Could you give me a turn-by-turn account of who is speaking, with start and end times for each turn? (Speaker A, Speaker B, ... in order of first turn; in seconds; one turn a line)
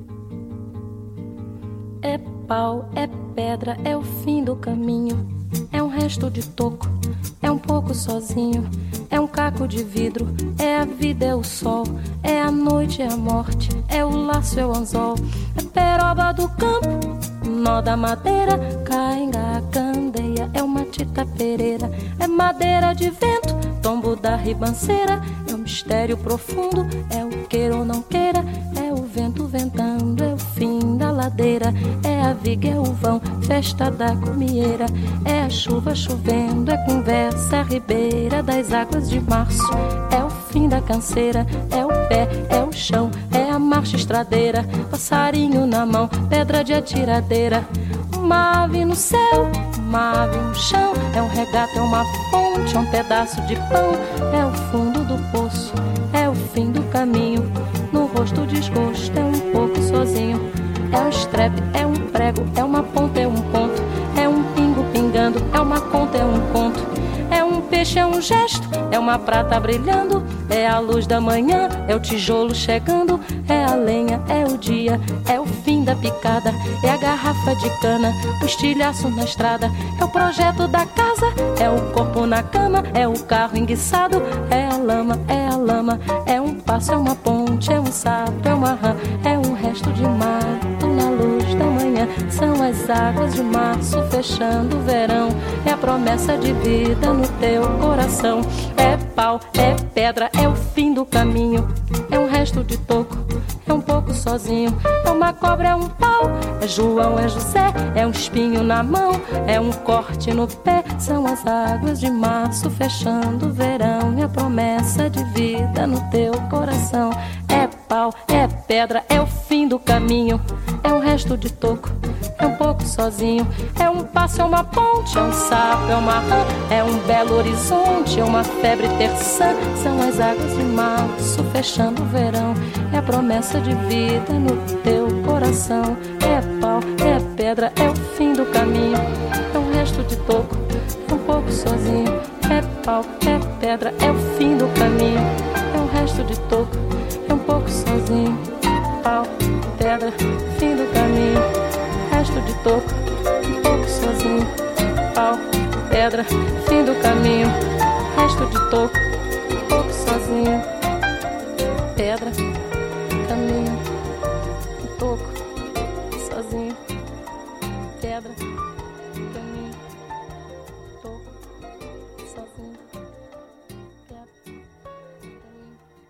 Speaker A: 2.0-151.5
Speaker A: 152.0-152.9
Speaker A: 153.5-157.6
Speaker A: 158.1-159.0
Speaker A: 159.5-160.7
Speaker A: 161.9-162.6
Speaker A: 163.2-163.8
Speaker A: 164.8-165.4
Speaker A: 166.1-166.8
Speaker A: 168.0-168.4
Speaker A: 169.1-169.8
Speaker A: 171.0-171.3
Speaker A: 172.2-172.8
Speaker A: 175.3-175.8